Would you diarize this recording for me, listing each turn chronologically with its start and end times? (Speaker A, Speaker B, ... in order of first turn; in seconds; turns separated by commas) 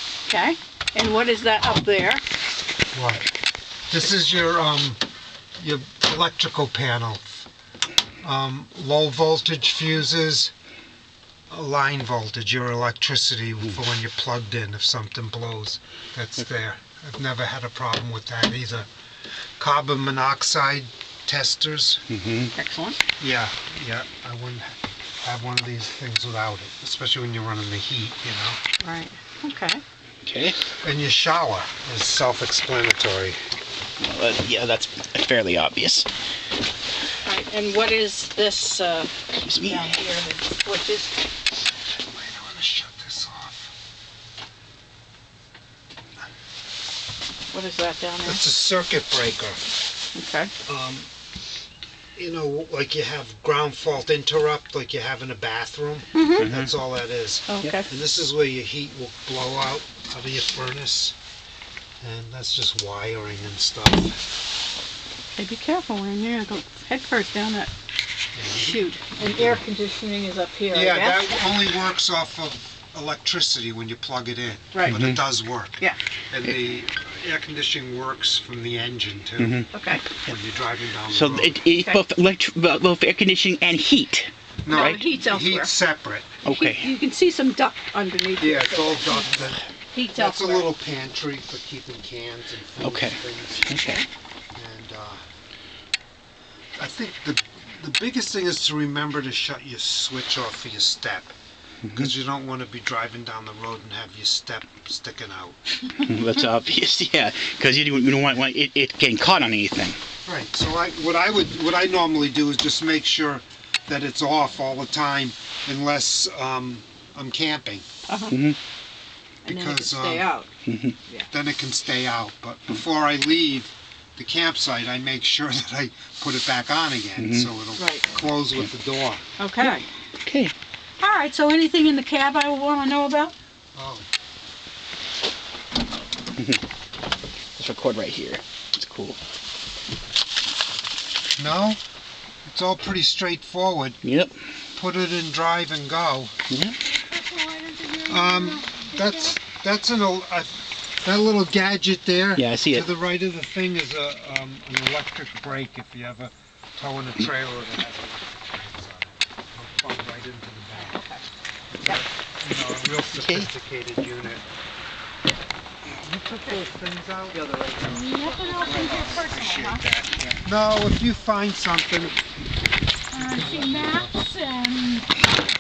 Speaker A: 0.3-2.2, Speaker B: 2.9-3.3, Speaker B: 3.9-5.0, Speaker B: 5.6-7.5, Speaker B: 8.2-10.5, Speaker B: 11.5-18.9, Speaker B: 19.6-22.0, Speaker C: 22.1-22.5, Speaker A: 22.6-23.0, Speaker B: 23.2-28.6, Speaker A: 28.8-29.8, Speaker C: 30.2-30.6, Speaker B: 30.8-33.4, Speaker C: 34.0-36.1, Speaker A: 37.2-41.1, Speaker C: 39.4-40.0, Speaker B: 41.9-43.7, Speaker A: 47.5-48.4, Speaker B: 48.2-49.6, Speaker A: 50.2-50.5, Speaker B: 50.7-51.1, Speaker B: 52.2-61.2, Speaker A: 56.2-56.5, Speaker C: 56.4-56.7, Speaker A: 57.5-57.9, Speaker B: 62.0-64.2, Speaker A: 65.3-67.7, Speaker B: 68.3-69.7, Speaker A: 68.5-71.5, Speaker B: 70.7-79.6, Speaker A: 74.7-75.0, Speaker C: 74.9-75.2, Speaker C: 79.4-80.4, Speaker A: 79.7-80.0, Speaker B: 80.2-81.6, Speaker C: 81.1-85.0, Speaker A: 81.7-82.0, Speaker B: 84.7-86.4, Speaker A: 84.7-85.7, Speaker C: 86.4-86.9, Speaker A: 86.5-89.4, Speaker B: 88.4-89.6, Speaker A: 89.9-90.7, Speaker B: 90.2-93.7, Speaker C: 92.8-94.0, Speaker A: 93.7-94.0, Speaker B: 94.5-95.2, Speaker B: 96.8-101.3, Speaker C: 101.8-102.1, Speaker B: 101.9-105.6, Speaker C: 106.0-110.0, Speaker B: 110.2-117.9, Speaker A: 118.1-118.3, Speaker C: 118.3-118.6, Speaker B: 119.5-120.3, Speaker A: 119.5-120.5, Speaker C: 120.7-121.0, Speaker B: 121.3-129.2, Speaker C: 127.2-127.5, Speaker A: 127.8-128.1, Speaker A: 129.4-129.8, Speaker C: 129.6-130.5, Speaker A: 131.0-133.3, Speaker B: 133.7-134.1, Speaker C: 136.4-136.6, Speaker C: 137.6-139.2, Speaker B: 141.4-141.8, Speaker B: 142.5-144.0, Speaker C: 144.0-144.3, Speaker B: 144.8-146.3, Speaker C: 146.5-146.8, Speaker A: 147.1-149.3, Speaker B: 148.1-161.0, Speaker C: 152.4-152.9, Speaker A: 160.8-161.3, Speaker B: 161.7-164.4, Speaker C: 163.1-163.5, Speaker B: 165.9-172.2, Speaker A: 167.3-169.8, Speaker A: 173.1-175.1, Speaker B: 173.2-174.2